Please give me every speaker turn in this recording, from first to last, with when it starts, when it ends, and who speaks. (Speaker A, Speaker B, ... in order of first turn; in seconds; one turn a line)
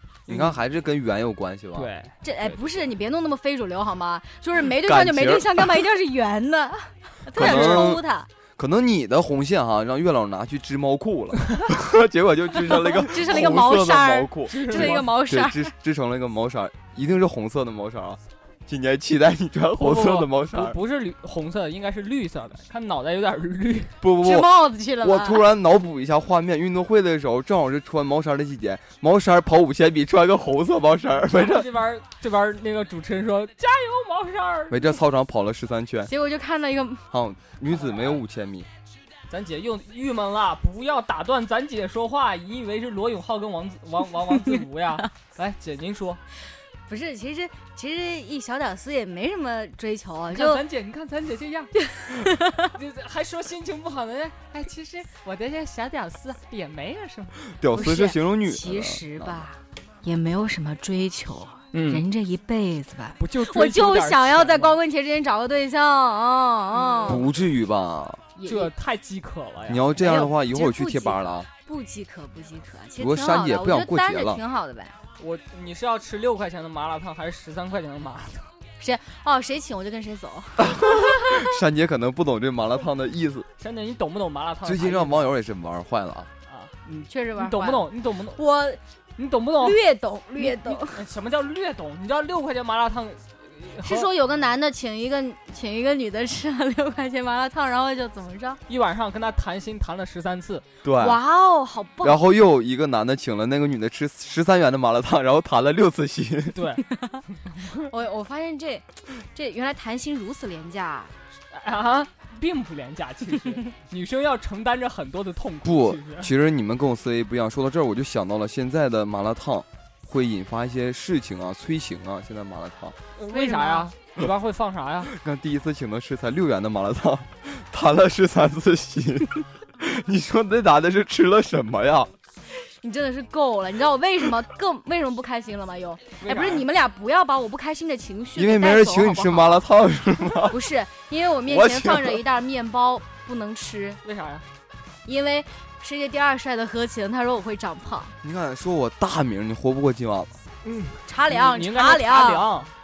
Speaker A: 0.3-0.6
Speaker B: 0.3-1.9
Speaker A: 1.8-2.6
Speaker C: 2.2-8.3
Speaker B: 4.6-5.8
Speaker B: 7.3-8.0
Speaker A: 7.3-7.9
Speaker B: 8.6-20.8
Speaker C: 12.7-15.7
Speaker A: 14.5-15.1
Speaker A: 19.8-23.9
Speaker B: 24.0-31.7
Speaker C: 24.2-25.4
Speaker A: 31.2-34.9
Speaker B: 34.7-36.1
Speaker C: 36.1-37.0
Speaker B: 37.1-38.7
Speaker A: 37.8-38.2
Speaker A: 39.3-46.2
Speaker C: 46.9-50.6
Speaker A: 50.3-57.4
Speaker C: 51.9-52.7
Speaker B: 57.5-59.5
Speaker C: 57.7-67.3
Speaker A: 61.7-62.0
Speaker A: 63.2-64.8
Speaker A: 66.7-67.3
Speaker B: 67.1-68.2
Speaker C: 68.4-68.7
Speaker A: 68.5-70.0
Speaker B: 69.7-71.5
Speaker C: 70.0-75.0
Speaker B: 73.0-74.4
Speaker A: 75.2-78.5
Speaker C: 78.8-81.6
Speaker B: 80.6-83.5
Speaker A: 83.6-85.3
Speaker B: 84.6-86.3
Speaker A: 86.5-88.4
Speaker C: 87.1-88.8
Speaker A: 89.2-89.8
Speaker C: 89.6-91.0
Speaker A: 90.4-94.1
Speaker C: 93.8-98.6
Speaker A: 98.7-100.7
Speaker B: 100.8-101.2
Speaker C: 101.0-102.2
Speaker B: 102.0-106.6
Speaker A: 106.5-106.8
Speaker C: 107.0-107.2
Speaker A: 107.5-107.8
Speaker C: 107.8-111.1
Speaker A: 111.5-116.3
Speaker B: 115.7-123.0
Speaker A: 123.2-125.1
Speaker C: 123.3-123.9
Speaker B: 125.1-132.1
Speaker C: 132.7-139.6
Speaker A: 136.2-136.7
Speaker B: 138.3-140.7
Speaker C: 140.5-144.0
Speaker B: 141.4-142.2
Speaker A: 144.0-144.5
Speaker C: 145.1-148.1
Speaker B: 148.2-150.3
Speaker A: 150.6-152.7
Speaker C: 151.1-152.5